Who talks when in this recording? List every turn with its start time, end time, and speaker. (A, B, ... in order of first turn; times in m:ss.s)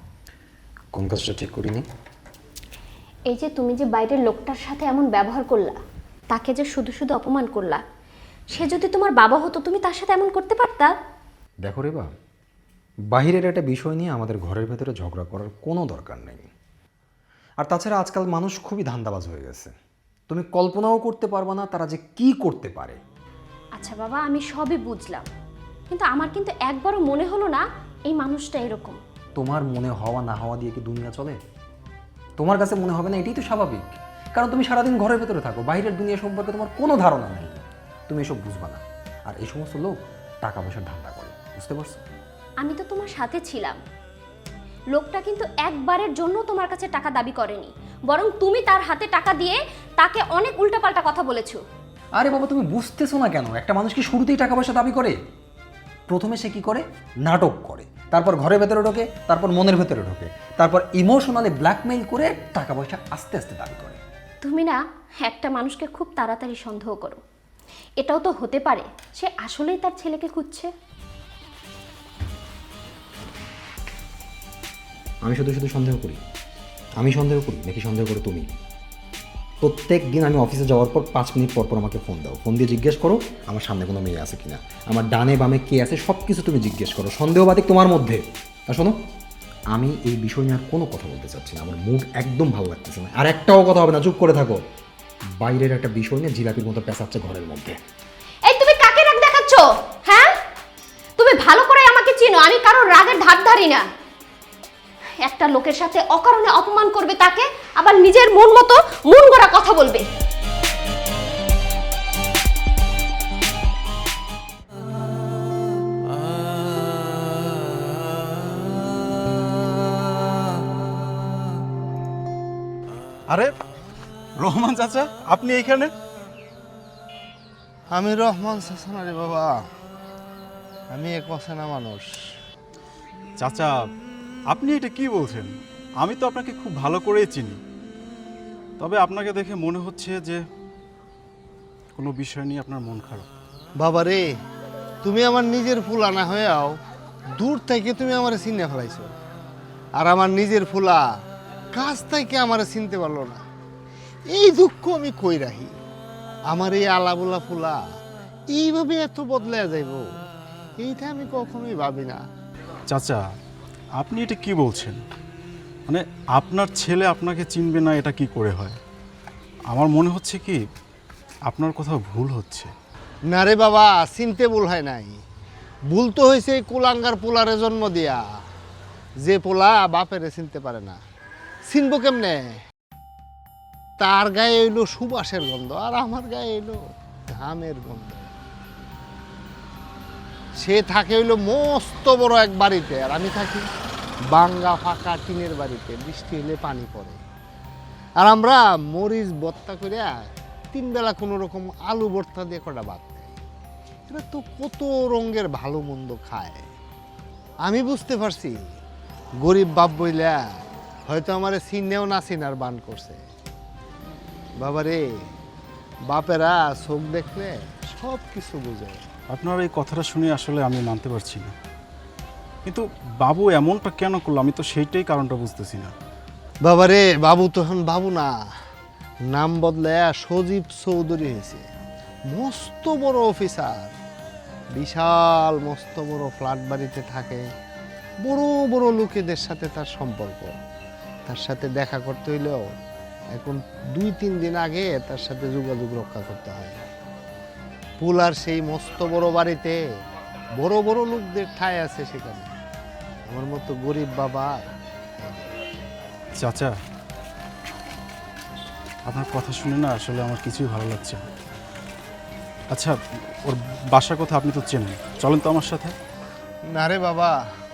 0:00.9-0:01.8 A
0:03.3-0:05.8 B
0:06.3-0:07.8 B
0:08.5-0:10.9 B
0:11.6-0:12.1 A
0:13.1-0:16.5 A
0:17.6-0:19.7 A
0:20.3-0:23.0 A
0:23.8-0:25.2 B
0:25.9-0:29.0 B
0:29.4-0:31.4 A
0:32.4-0:42.0 A
0:42.6-0:43.8 B
0:44.9-0:51.6 B
0:52.2-0:55.2 A
0:56.1-1:04.0 A
1:04.4-1:07.2 B
1:08.0-1:10.7 B
1:15.2-1:16.2 A
1:17.0-1:18.4 A
1:19.6-1:28.9 A
1:29.7-1:34.6 A
1:35.4-1:37.8 A
1:38.5-1:40.3 B
1:41.2-1:43.8 B
1:45.2-1:50.0 B
2:03.3-2:03.5 C
2:04.4-2:05.9 C
2:07.9-2:09.6 D
2:10.9-2:12.1 D
2:13.4-2:13.8 C
2:14.5-2:17.6 C
2:18.8-2:20.4 C
2:21.9-2:23.3 C
2:23.8-2:24.3 D
2:25.0-2:26.7 D
2:27.4-2:29.1 D
2:30.0-2:31.0 D
2:31.7-2:33.4 D
2:34.3-2:35.7 D
2:36.5-2:37.8 D
2:38.5-2:40.0 D
2:40.8-2:42.2 D
2:42.9-2:43.2 C
2:44.0-2:45.0 C
2:45.9-2:48.8 C
2:49.7-2:50.6 C
2:51.5-2:52.7 C
2:53.3-2:55.1 D
2:55.9-2:58.2 D
2:59.2-3:01.0 D
3:01.7-3:02.5 D
3:04.0-3:06.8 D
3:07.3-3:08.3 D
3:10.6-3:13.7 D
3:14.3-3:17.2 D
3:18.2-3:23.3 D
3:24.1-3:26.6 D
3:27.6-3:28.6 D
3:29.4-3:30.4 D
3:31.1-3:33.2 D
3:34.6-3:35.0 D
3:36.1-3:39.0 D
3:39.3-3:41.5 C
3:42.6-3:45.9 C
3:46.6-3:48.4 D
3:49.3-3:51.6 D
3:52.3-3:53.9 D
3:54.7-3:57.4 D
3:58.2-4:00.5 D
4:01.2-4:02.7 D
4:03.3-4:06.8 D
4:08.0-4:09.8 D
4:10.6-4:12.5 D
4:13.3-4:14.6 D
4:15.2-4:15.4 D
4:16.4-4:16.7 C
4:19.0-4:21.2 C
4:22.7-4:25.9 C
4:26.7-4:27.4 D